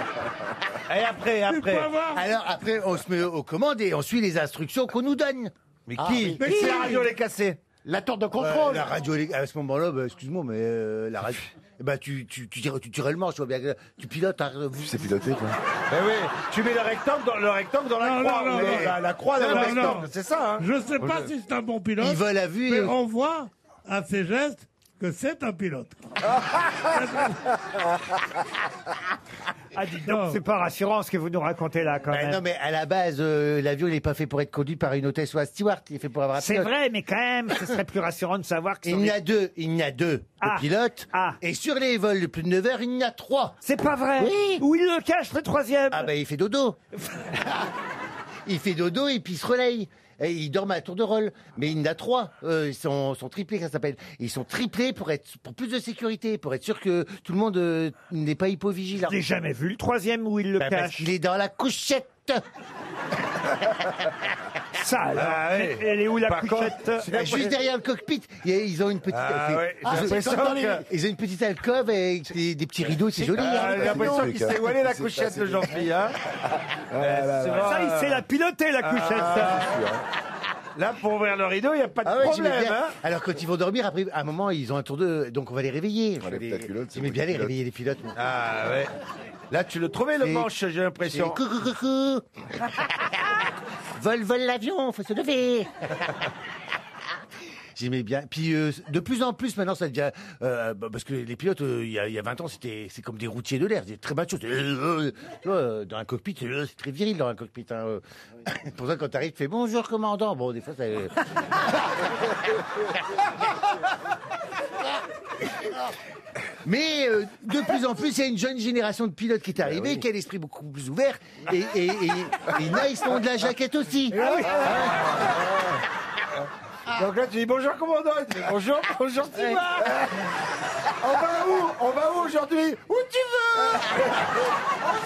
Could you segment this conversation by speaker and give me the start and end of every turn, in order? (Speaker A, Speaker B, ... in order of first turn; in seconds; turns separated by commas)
Speaker A: 0.9-1.9, Speaker B: 1.4-2.3, Speaker C: 2.1-7.0, Speaker A: 5.9-8.9, Speaker B: 6.4-7.0, Speaker C: 8.3-15.3, Speaker D: 14.8-15.6, Speaker A: 15.9-21.3, Speaker B: 18.0-26.0, Speaker C: 18.6-20.0, Speaker C: 22.0-22.9, Speaker B: 26.9-27.4, Speaker E: 29.7-32.4, Speaker B: 30.1-30.4, Speaker C: 32.1-36.7, Speaker E: 36.4-39.2, Speaker C: 38.8-43.6, Speaker E: 40.4-41.4, Speaker E: 43.6-46.1, Speaker C: 44.2-44.6, Speaker C: 45.9-46.8, Speaker C: 48.5-59.2, Speaker E: 59.0-61.1, Speaker C: 60.6-62.4, Speaker E: 64.8-67.3, Speaker A: 65.2-67.5, Speaker C: 67.0-74.2, Speaker A: 69.1-70.8, Speaker A: 73.0-76.2, Speaker D: 73.2-75.8, Speaker A: 76.9-78.2, Speaker D: 77.0-77.6, Speaker E: 77.4-79.7, Speaker A: 78.8-80.0, Speaker A: 80.8-82.9, Speaker C: 82.0-88.2, Speaker D: 86.2-87.5, Speaker A: 88.2-88.9, Speaker A: 89.5-91.4, Speaker C: 90.2-92.2, Speaker C: 92.8-93.1, Speaker C: 94.0-95.7, Speaker C: 97.8-111.6, Speaker C: 116.6-125.2, Speaker E: 124.1-124.7, Speaker A: 124.2-125.3, Speaker A: 126.9-130.1, Speaker C: 129.3-129.6, Speaker A: 131.0-134.1